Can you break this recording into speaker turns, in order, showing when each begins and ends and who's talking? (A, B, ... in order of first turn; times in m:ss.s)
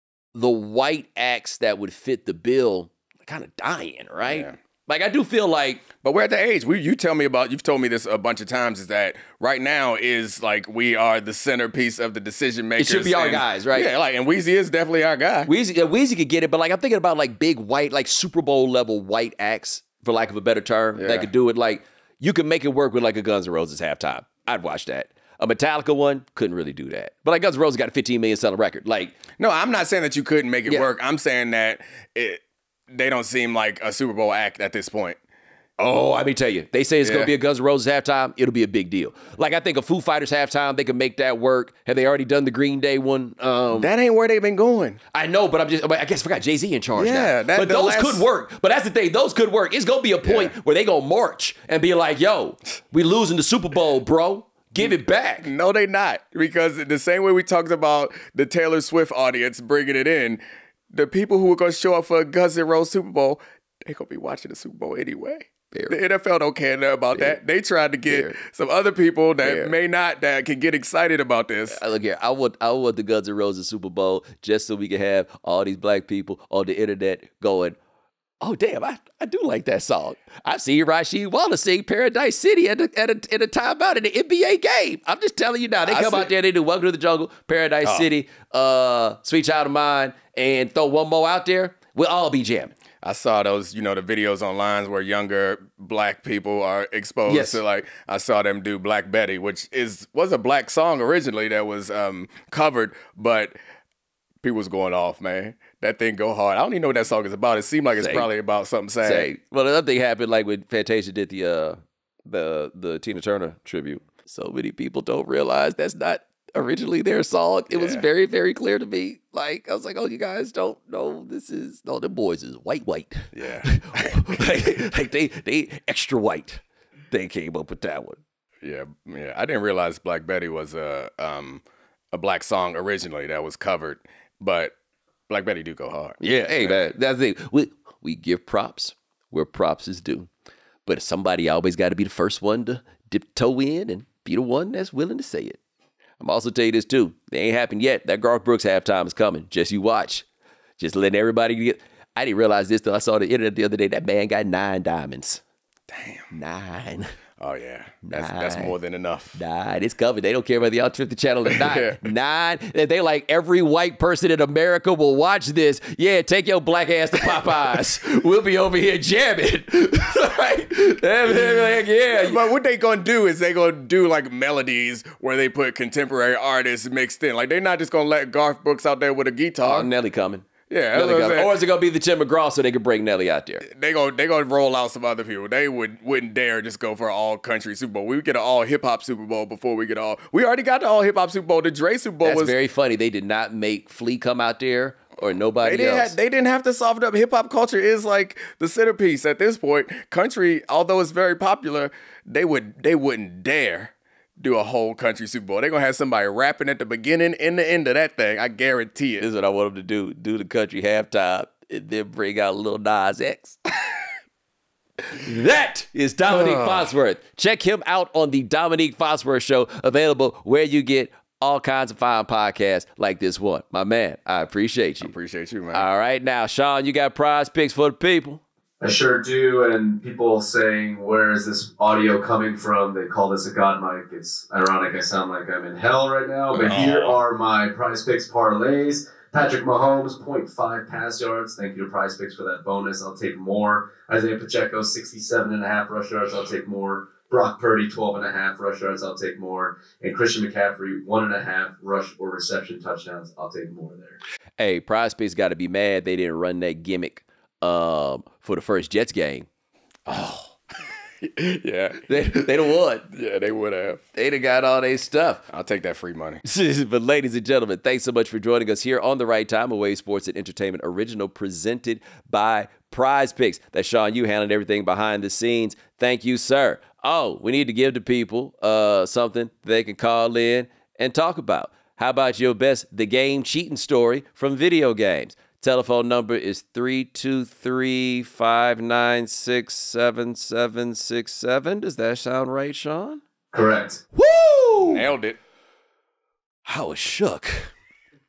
0:00.3-0:05.8 A
0:04.2-0:04.5 B
0:06.0-0:15.5 B
0:12.8-0:13.9 A
0:15.5-0:29.2 A
0:21.0-0:21.3 B
0:29.4-0:35.2 B
0:35.8-0:43.9 A
0:37.0-0:37.3 B
0:43.7-0:45.0 B
0:45.1-0:55.5 A
0:47.0-0:48.2 B
0:50.2-0:50.5 B
0:54.8-1:11.8 B
1:05.7-1:06.0 A
1:08.1-1:08.4 A
1:09.4-1:09.7 A
1:11.7-1:17.8 A
1:18.4-1:32.7 A
1:25.8-1:26.3 B
1:33.0-1:43.6 B
1:37.3-1:37.6 A
1:44.4-1:49.3 B
1:48.0-1:48.3 A
1:49.0-2:08.2 A
1:57.7-1:58.0 B
2:03.3-2:04.2 B
2:08.6-2:14.7 B
2:15.3-2:16.8 B
2:16.2-2:20.3 A
2:20.8-2:25.6 A
2:26.2-2:30.2 A
2:30.8-2:35.4 A
2:35.9-2:36.3 B
2:36.3-2:37.1 A
2:37.4-2:39.4 B
2:38.0-2:38.7 A
2:39.3-2:52.4 A
2:41.5-2:42.0 B
2:52.1-2:59.9 B
2:59.6-3:03.6 A
3:00.7-3:01.6 B
3:03.6-3:12.5 B
3:12.2-3:16.1 A
3:15.6-3:29.2 B
3:29.2-3:33.6 A
3:35.1-3:45.1 A
3:36.3-3:36.9 B
3:45.0-3:45.8 B
3:45.7-3:48.4 A
3:48.8-4:14.2 C
3:56.5-3:57.2 B
4:14.6-4:19.5 A
4:20.1-4:20.4 B
4:21.2-4:22.4 B
4:22.1-4:23.1 A
4:23.1-4:24.0 B
4:24.1-4:25.4 A
4:25.5-4:26.4 B
4:26.4-4:53.2 A
4:53.5-4:54.0 C
4:54.1-4:55.0 A
4:54.8-4:55.4 B
4:56.6-4:57.7 A